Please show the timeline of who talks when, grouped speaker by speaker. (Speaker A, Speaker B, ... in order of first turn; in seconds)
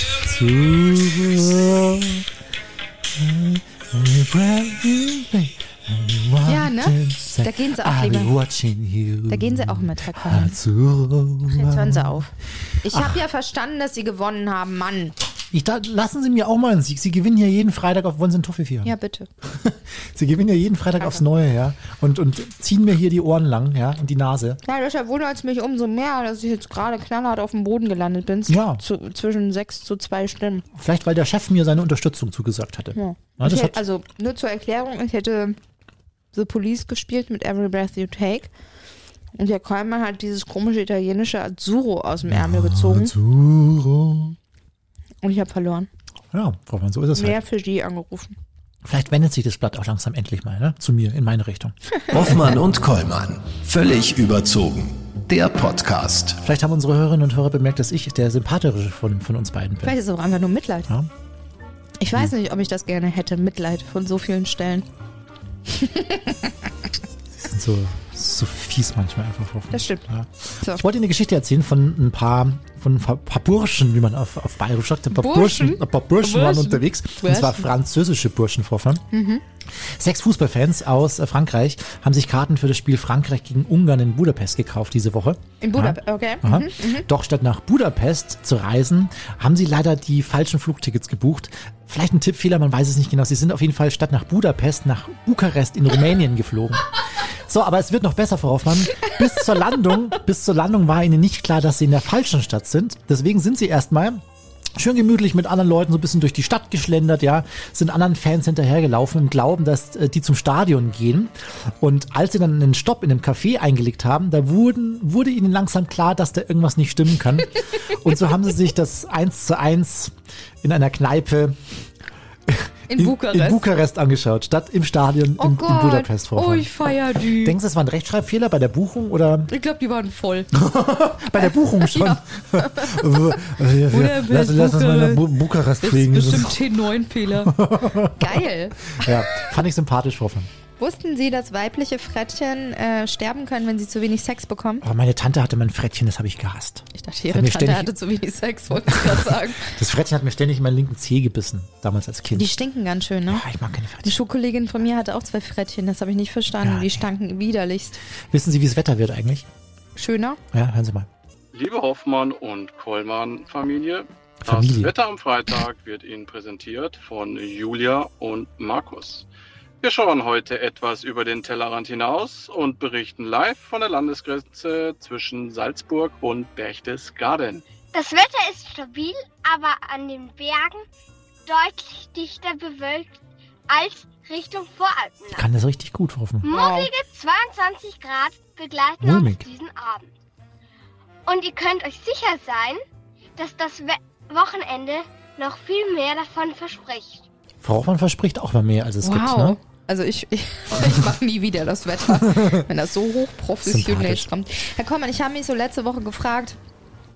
Speaker A: 0.2-2.2, 3.1-12.3, 12.9-13.2, 15.5-24.6, 28.5-28.8, 30.7-33.8, 42.3-44.3, 46.3-47.4, 48.8-51.7, 56.4-60.0, 67.4-79.0, 79.7-104.2, 104.8-121.6, 122.5-129.5, 130.5-136.6, 137.3-140.5, 144.8-147.9, 148.8-152.5, 153.3-154.2, 156.6-157.1, 158.3-159.5, 160.5-161.1, 164.4-164.9, 185.3-186.5, 189.0-189.4, 197.6-199.6, 202.2-202.6, 203.6-204.3
Speaker B: 6.5-8.3, 9.3-10.5, 11.5-12.3, 12.8-15.1, 18.8-19.3, 24.6-30.6, 33.0-35.6, 36.3-38.5, 39.3-43.1, 45.2-45.9, 47.1-48.4, 59.8-60.9, 62.0-64.9, 65.7-66.5, 69.7-70.1, 75.1-77.7, 79.1-79.4, 85.6-87.1, 122.9-123.6, 125.4-127.5, 129.5-130.5, 131.3-135.3, 135.8-137.6, 138.1-139.5, 140.8-144.8, 146.9-149.8, 152.3-153.4, 154.0-158.0, 159.9-160.4, 186.5-186.8, 199.0-206.6
Speaker C: 52.1-56.4
Speaker D: 161.5-169.3, 169.8-177.6
Speaker E: 177.9-180.8, 181.5-185.4, 186.4-190.0, 191.2-192.8, 193.4-197.2